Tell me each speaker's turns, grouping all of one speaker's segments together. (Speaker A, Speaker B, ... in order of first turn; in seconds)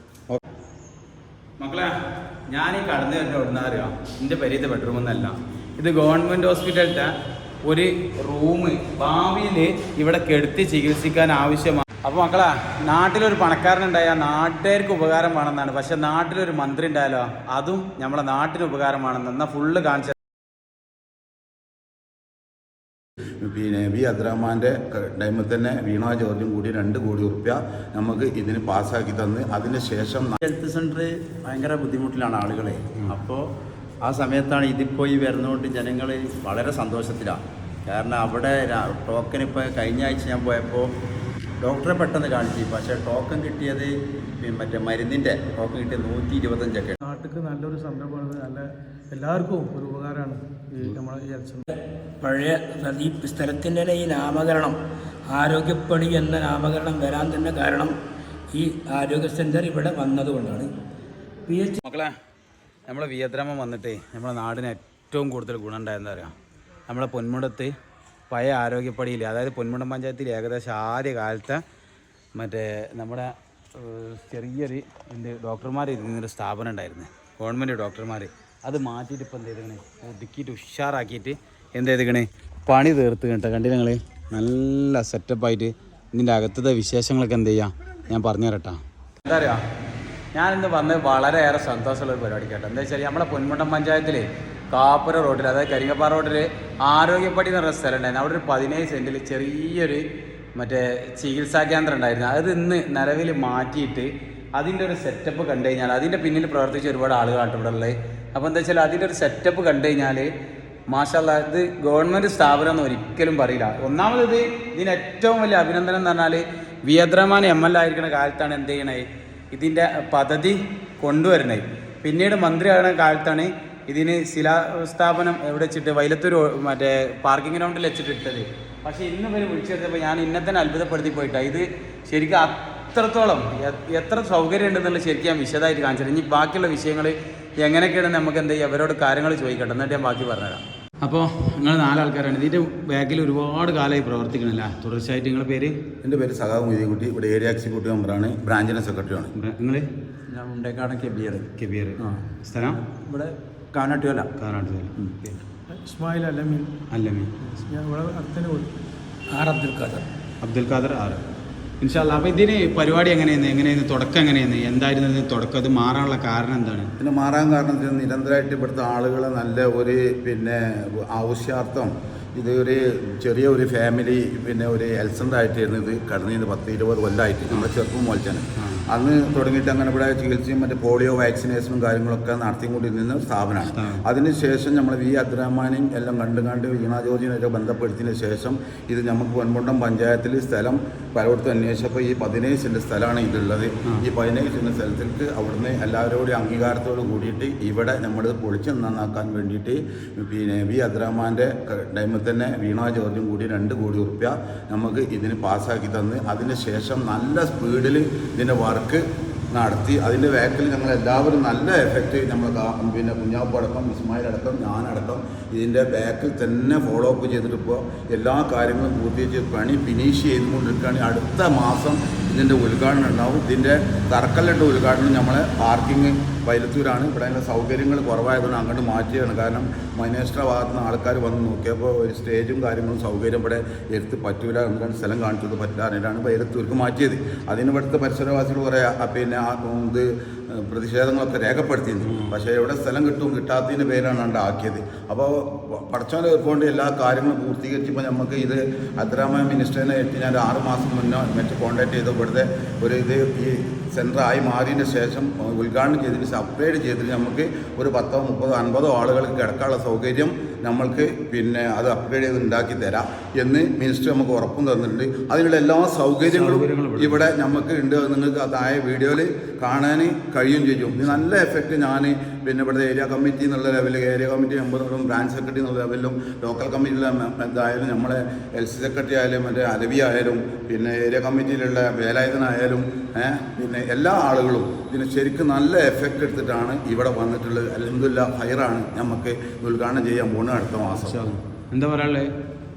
Speaker A: 1.6-1.9, 2.5-7.1, 7.6-20.1, 61.8-62.1, 62.9-66.3, 66.9-67.7, 68.3-71.6, 72.3-89.6, 90.3-100.0, 100.5-110.3, 110.9-145.8, 149.3-149.9, 151.5-152.8, 154.3-155.3, 156.9-157.3, 160.4-161.2, 161.8-166.9, 178.6-178.8, 183.7-184.0, 242.0-242.3, 266.3-267.4, 291.0-292.3
Speaker B: 23.4-30.4, 146.0-149.3, 167.0-291.2
Speaker C: 30.4-33.5, 34.0-40.9, 41.6-47.0, 150.3-151.5, 152.9-154.3
Speaker D: 47.0-51.7, 155.7-156.7, 157.4-158.7
Speaker E: 51.7-54.8, 55.3-58.0, 58.5-60.7, 61.5-61.8, 159.3-160.0